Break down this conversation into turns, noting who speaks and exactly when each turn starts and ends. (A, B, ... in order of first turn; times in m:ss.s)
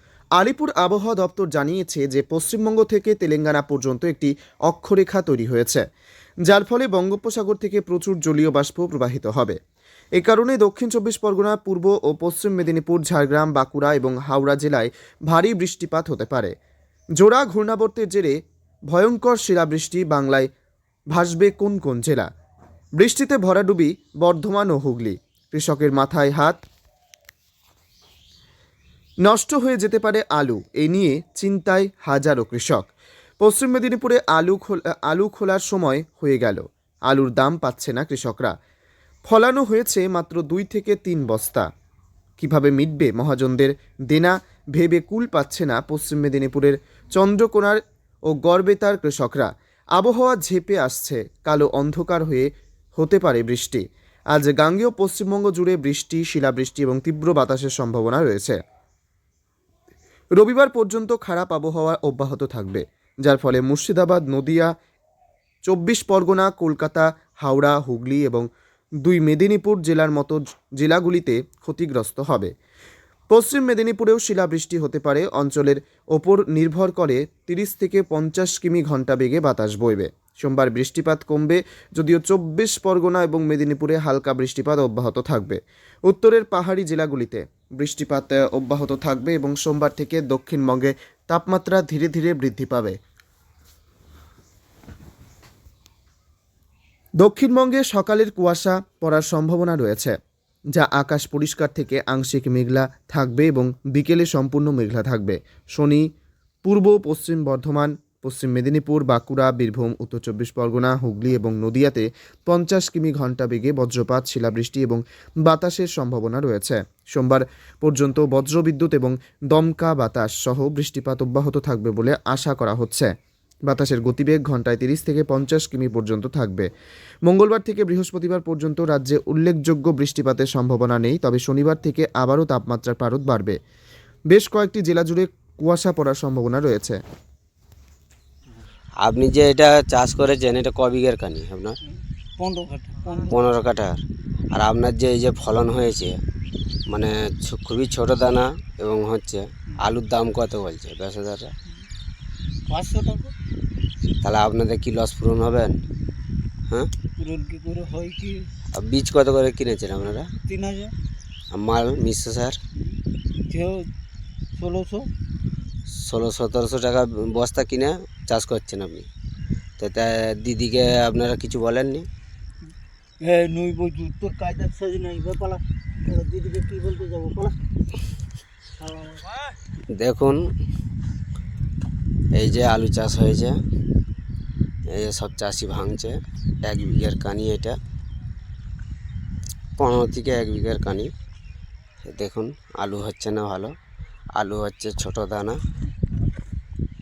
0:00.4-0:05.8 A
0:06.5-0:09.6 A
0:10.2-0:16.5 A
0:17.2-0:18.4 A
0:18.9-0:20.5 A
0:21.1-0:22.3 A
0:23.0-0:26.6 A
0:29.2-0:32.9 A
0:33.4-0:38.5 A
0:39.2-0:41.7 A
0:42.4-0:58.6 A
1:00.4-1:04.7 A
1:05.7-1:08.5 A
1:09.0-1:12.5 A
1:13.3-1:33.0 A
1:37.2-1:40.2 A
1:40.8-1:46.1 A
1:46.6-2:03.1 A
2:03.7-2:06.7 A
2:07.3-2:13.6 A
2:14.3-2:17.0 A
2:19.0-2:21.8 B
2:22.4-2:23.4 C
2:23.3-2:24.0 B
2:24.5-2:26.2 B
2:26.9-2:31.6 B
2:32.7-2:33.3 C
2:34.2-2:35.8 B
2:37.2-2:38.5 C
2:38.7-2:40.3 B
2:40.4-2:40.9 C
2:41.5-2:42.6 B
2:43.5-2:43.9 C
2:44.6-2:45.1 C
2:46.0-2:49.1 B
2:49.8-2:52.1 B
2:53.2-2:57.6 C
2:58.8-2:59.4 C
3:00.0-3:00.4 B
3:02.4-3:03.6 B
3:04.9-3:07.8 B
3:09.8-3:11.1 B
3:12.0-3:13.8 B
3:14.4-3:15.6 B